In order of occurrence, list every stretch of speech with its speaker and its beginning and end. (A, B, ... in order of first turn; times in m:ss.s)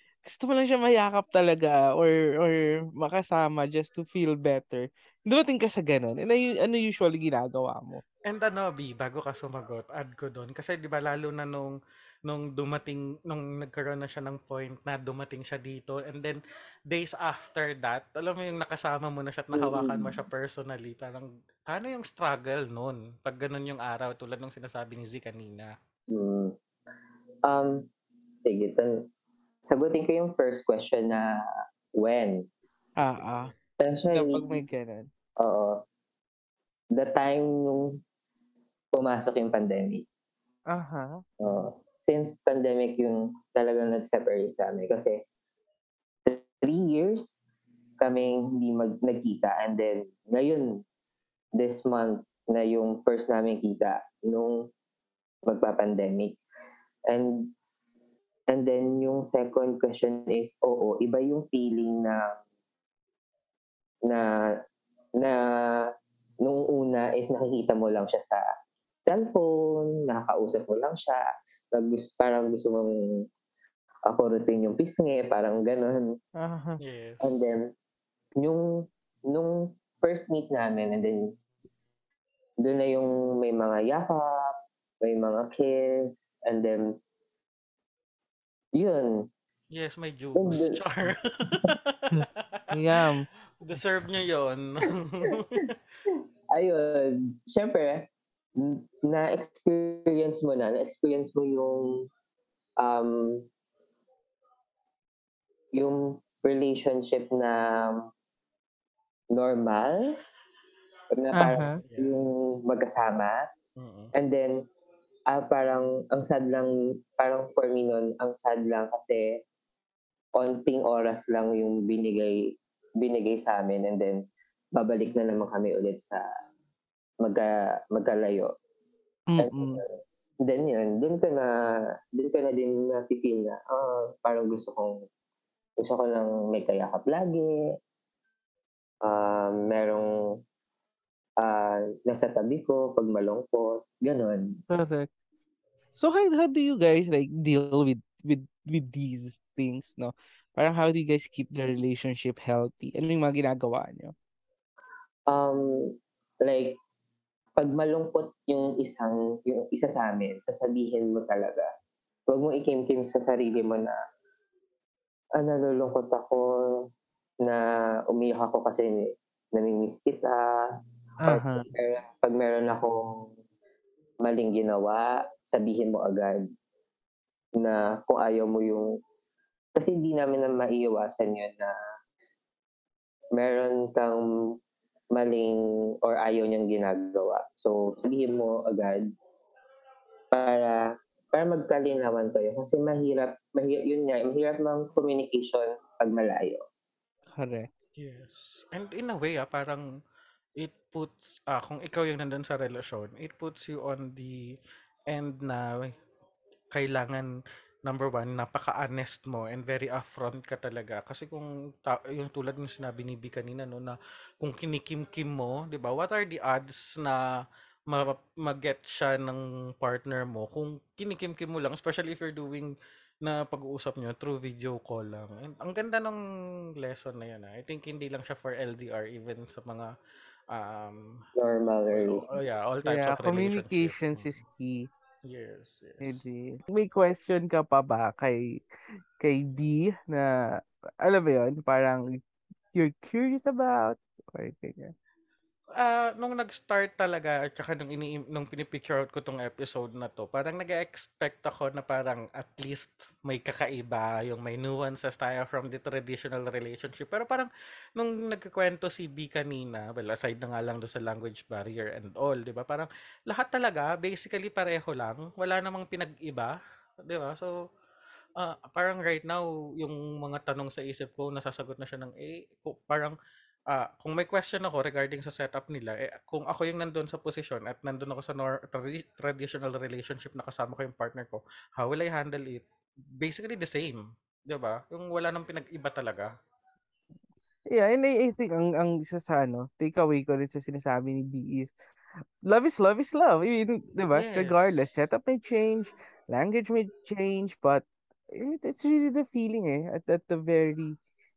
0:00.2-0:08.0 A
0:08.2-0:25.7 B
0:19.5-0:20.2 C
0:26.1-0:26.5 C
0:27.5-0:27.9 C
0:28.4-0:29.0 C
0:29.6-0:31.4 C
0:31.9-0:32.4 C
0:33.0-0:33.5 A
0:33.8-0:34.6 C
0:34.1-0:35.1 A
0:35.4-0:35.8 C
0:36.9-0:38.0 C
0:38.9-0:40.0 C
0:40.7-0:41.2 A
0:41.4-0:45.2 C
0:46.2-0:50.8 C
0:51.6-0:54.7 C
0:55.4-0:56.4 C
0:57.1-0:57.5 C
0:58.5-1:02.4 C
1:05.2-1:05.9 C
1:06.4-1:08.4 C
1:09.1-1:13.2 C
1:14.1-1:16.2 C
1:16.4-1:16.8 A
1:16.8-1:17.5 B
1:17.2-1:17.7 C
1:18.4-1:21.4 C
1:22.6-1:26.9 C
1:28.7-1:29.3 C
1:29.7-1:32.7 B
1:30.3-1:30.8 C
1:32.1-1:33.3 A
1:33.6-1:35.7 B
1:36.5-1:38.0 C
1:38.6-1:42.1 C
1:42.8-1:43.5 C
1:45.7-1:48.1 C
1:49.3-1:50.2 C
1:51.1-1:53.4 C
1:51.3-1:51.8 A
1:51.8-1:52.2 B
1:53.8-1:54.1 B
1:54.1-1:54.6 C
1:55.3-1:59.4 C
2:00.4-2:02.4 C
2:03.0-2:04.2 C
2:04.7-2:06.2 C
2:07.2-2:08.5 C
2:09.3-2:09.8 A
2:09.4-2:09.9 C
2:10.4-2:15.0 C
2:15.8-2:17.6 C
2:19.0-2:20.4 C
2:21.4-2:24.6 C
2:24.7-2:25.1 A
2:25.9-2:34.1 A
2:35.3-2:35.9 C
2:36.4-2:36.8 C
2:37.6-2:41.7 C
2:42.3-2:43.9 C
2:45.4-2:46.5 C
2:47.4-2:50.6 C
2:51.2-2:51.6 A
2:51.3-2:53.2 C
2:54.2-2:56.5 C
2:57.6-2:58.9 C
2:59.8-3:01.7 C
3:03.4-3:04.2 C
3:05.1-3:09.1 C
3:10.3-3:16.6 C
3:17.3-3:17.7 A
3:18.0-3:19.8 B
3:20.6-3:24.5 B
3:25.1-3:25.9 B
3:26.7-3:27.3 B
3:27.8-3:37.2 B
3:37.9-3:42.7 B
3:43.2-3:46.2 B
3:46.8-3:49.9 B
3:50.5-3:51.2 B
3:51.4-3:52.3 C
3:51.9-3:54.4 B
3:52.8-3:54.9 A
3:55.2-3:56.2 B
3:56.0-3:58.6 A
3:59.2-4:00.3 A
4:01.0-4:02.2 A
4:02.7-4:04.9 A
4:05.8-4:27.5 B
4:28.4-4:33.1 B
4:33.7-4:42.6 B
4:43.2-4:46.3 B
4:47.7-4:51.8 A
4:52.4-5:01.0 A
4:54.1-4:54.9 B